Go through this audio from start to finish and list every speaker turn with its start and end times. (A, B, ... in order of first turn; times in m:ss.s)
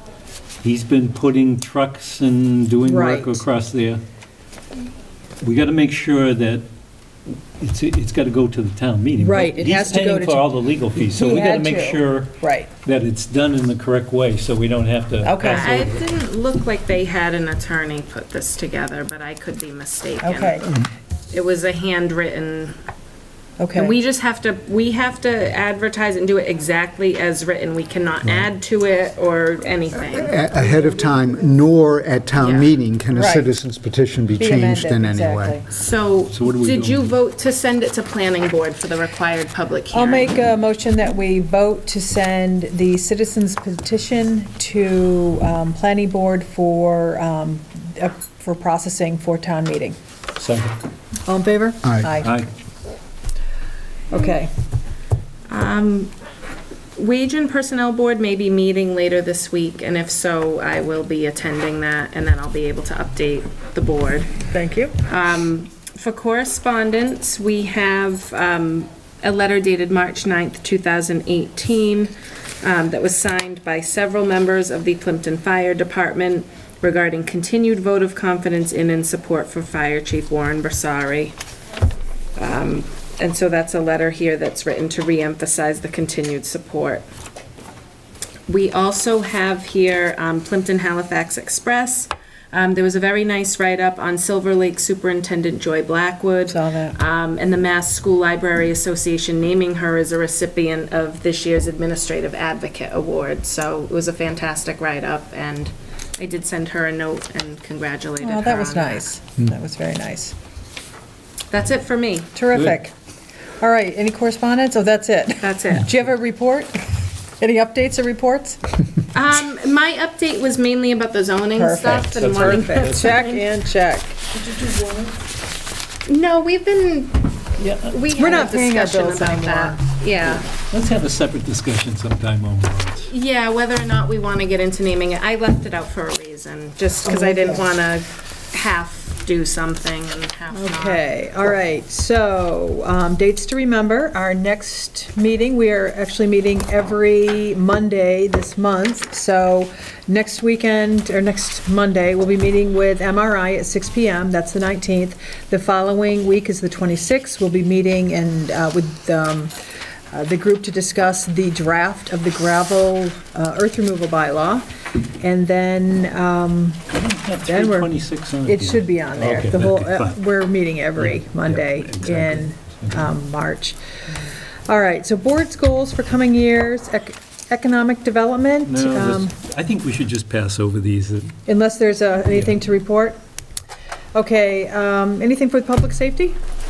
0:00.6-0:04.0 A
0:02.9-0:03.4 B
0:05.4-0:06.6 A
0:07.3-0:12.3 A
0:09.2-0:12.7 B
0:12.8-0:16.1 A
0:15.2-0:15.8 B
0:15.4-0:20.7 C
0:20.2-0:20.7 B
0:21.3-0:22.8 C
0:23.6-0:24.0 B
0:23.8-0:30.4 C
0:30.1-0:35.6 D
0:30.8-0:31.1 B
0:32.4-0:32.7 C
0:33.1-0:33.5 B
0:34.4-0:35.7 B
0:35.7-0:40.4 C
0:36.3-0:37.1 A
0:39.9-0:50.0 B
0:50.4-0:50.8 A
0:51.3-0:52.4 B
0:51.8-0:52.2 D
0:52.2-0:52.5 A
0:54.1-0:54.5 B
0:55.5-0:56.1 C
0:57.0-1:04.4 C
1:04.5-1:05.0 B
1:05.0-1:21.4 C
1:22.4-1:27.0 C
1:28.5-1:49.1 C
1:36.5-1:37.0 B
1:48.2-1:50.3 B
1:51.5-1:52.3 C
1:52.4-1:52.9 B
1:53.6-1:58.6 B
1:55.4-1:55.9 C
1:59.1-2:03.4 C
2:01.5-2:04.2 B
2:01.8-2:03.2 A
2:04.5-2:05.0 A
2:06.1-2:10.5 C
2:07.6-2:08.0 A
2:08.2-2:10.4 B
2:10.7-2:13.1 A
2:13.1-2:21.0 C
2:17.0-2:17.7 B
2:20.5-2:39.5 B
2:40.1-2:44.7 B
2:45.2-2:46.8 B
2:46.9-2:50.2 A
2:47.5-2:53.8 B
2:51.0-2:53.1 A
2:54.7-2:59.3 B
2:58.6-3:01.4 A
3:01.5-3:03.2 B
3:04.1-3:06.4 B